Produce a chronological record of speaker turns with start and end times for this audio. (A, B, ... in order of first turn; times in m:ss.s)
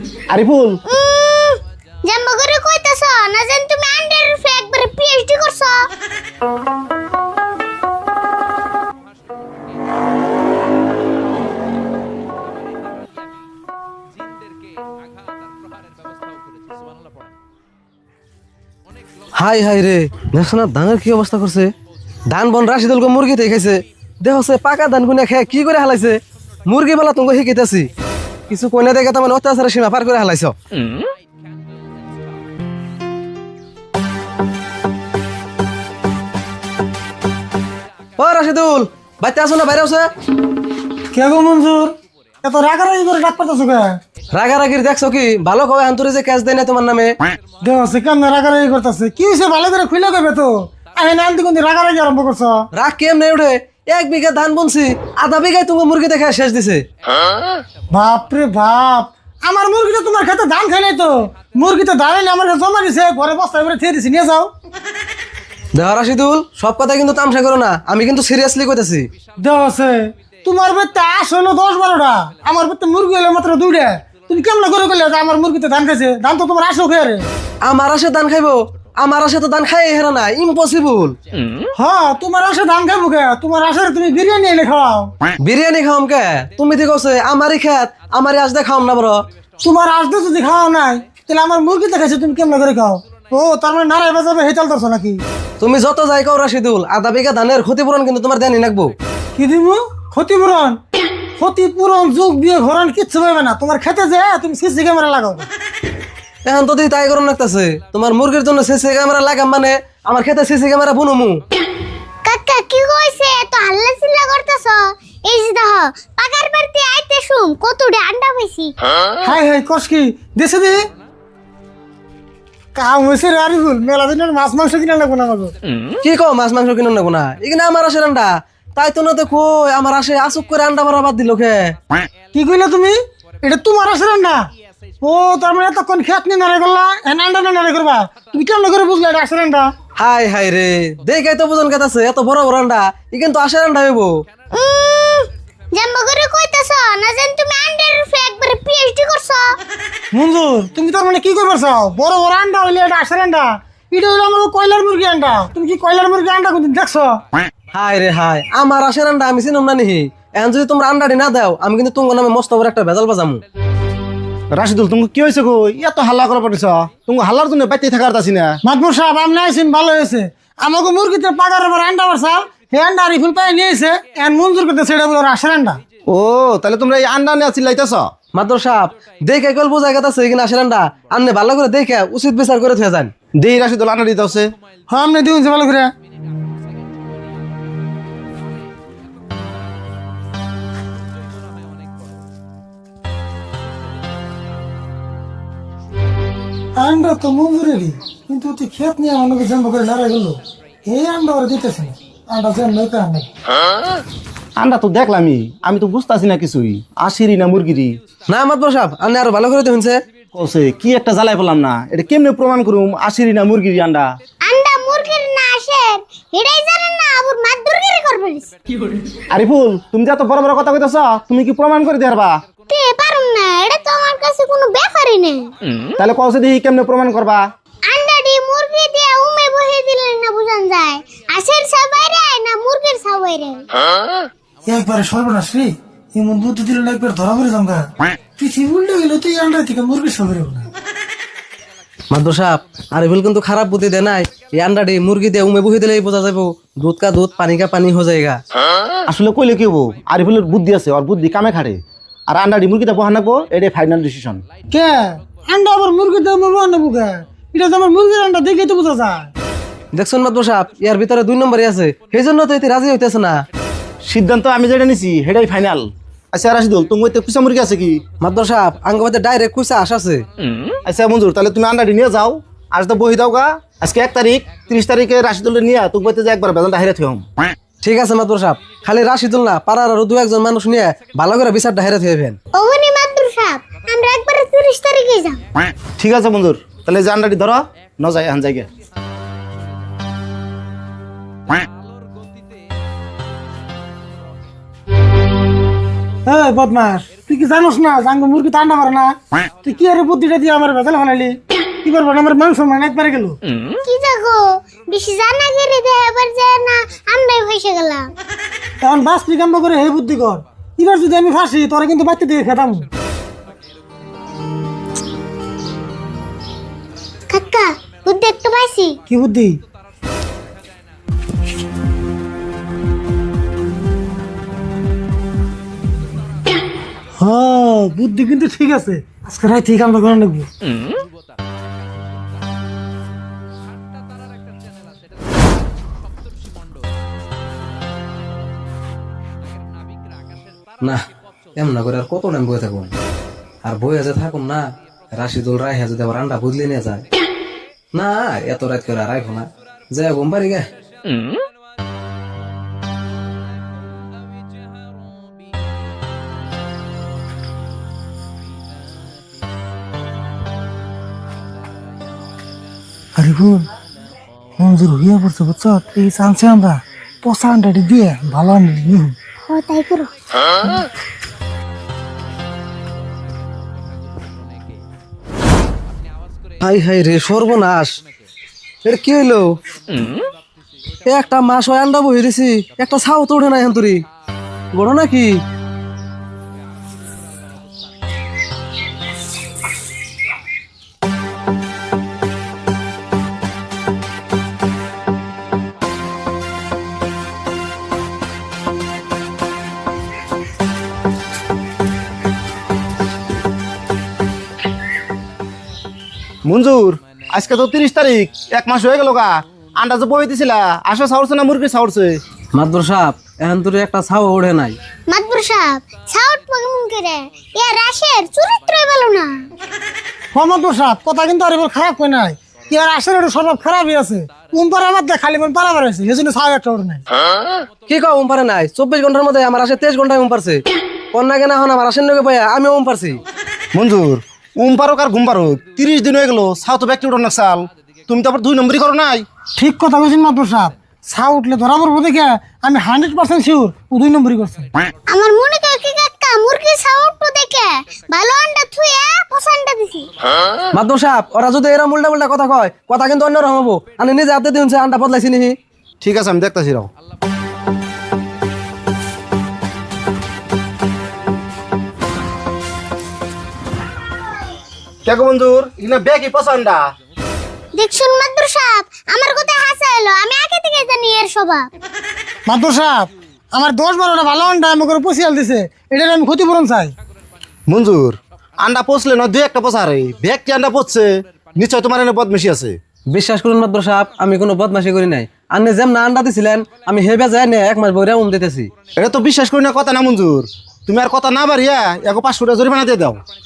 0:00.3-0:00.8 A
0:00.9-0:05.9 B
0:19.4-0:21.7 C
0:22.3-0:27.9 C
0:28.5-0:30.6 C
0:38.2-0:40.1 C
0:41.1-0:44.0 D
0:44.3-0:47.2 C
0:47.6-0:52.7 D
0:52.7-0:56.8 C
0:57.9-1:04.5 D
1:05.7-1:09.1 C
1:09.4-1:17.3 D
1:17.6-1:21.2 C
1:21.8-1:25.1 D
1:25.4-1:29.2 C
1:29.6-1:35.2 D
1:35.6-1:38.9 C
1:39.4-1:40.8 D
1:41.4-1:45.5 D
1:46.4-1:51.4 C
1:52.2-1:58.8 B
1:59.2-2:00.8 D
2:02.7-2:05.5 D
2:06.0-2:11.8 C
2:12.3-2:14.5 D
2:15.0-2:19.7 D
2:20.0-2:24.1 C
2:24.5-2:29.6 B
2:30.1-2:37.2 D
2:37.7-2:43.4 C
2:44.6-2:48.6 A
2:48.6-2:55.8 D
2:56.1-2:58.1 A
2:58.3-3:03.1 C
3:03.4-3:04.5 A
3:04.9-3:05.9 D
3:16.8-3:23.3 D
3:24.6-3:28.0 A
3:28.3-3:30.0 C
3:30.3-3:34.1 A
3:34.4-3:38.5 B
3:39.3-3:42.4 A
3:42.7-3:45.5 B
3:46.0-3:47.4 A
3:47.9-3:53.7 B
3:54.7-4:00.7 D
4:02.1-4:08.4 C
4:09.1-4:14.4 A
4:14.7-4:19.3 D
4:19.9-4:23.4 C
4:24.1-4:28.0 A
4:28.2-4:30.2 C
4:30.8-4:37.2 A
4:37.8-4:42.4 C
4:42.5-4:45.4 B
4:46.0-4:48.7 A
4:56.2-5:03.4 D
5:03.8-5:08.1 B
5:08.8-5:12.9 D
5:17.3-5:19.0 B
5:19.1-5:19.6 D
5:27.2-5:30.5 D
5:41.6-5:42.9 C
5:43.6-5:47.0 C
5:47.9-5:50.7 C
6:03.2-6:03.7 D
6:04.6-6:09.1 D
6:09.5-6:10.8 B
6:16.6-6:17.9 C
6:18.8-6:19.5 C
6:21.0-6:24.0 C
6:24.7-6:25.3 C
6:46.5-6:52.2 A
6:52.5-6:54.8 C
6:55.1-6:59.4 B
7:00.3-7:07.0 D
7:07.9-7:10.6 C
7:11.1-7:13.2 C
7:13.7-7:19.2 A
7:19.6-7:24.7 D
7:25.1-7:30.1 B
7:30.7-7:35.6 C
7:36.0-7:36.9 A
7:45.0-7:46.8 A
7:47.8-7:51.7 B
7:52.5-7:56.9 D
7:57.7-8:02.8 A
8:03.1-8:08.7 C
8:09.0-8:13.2 A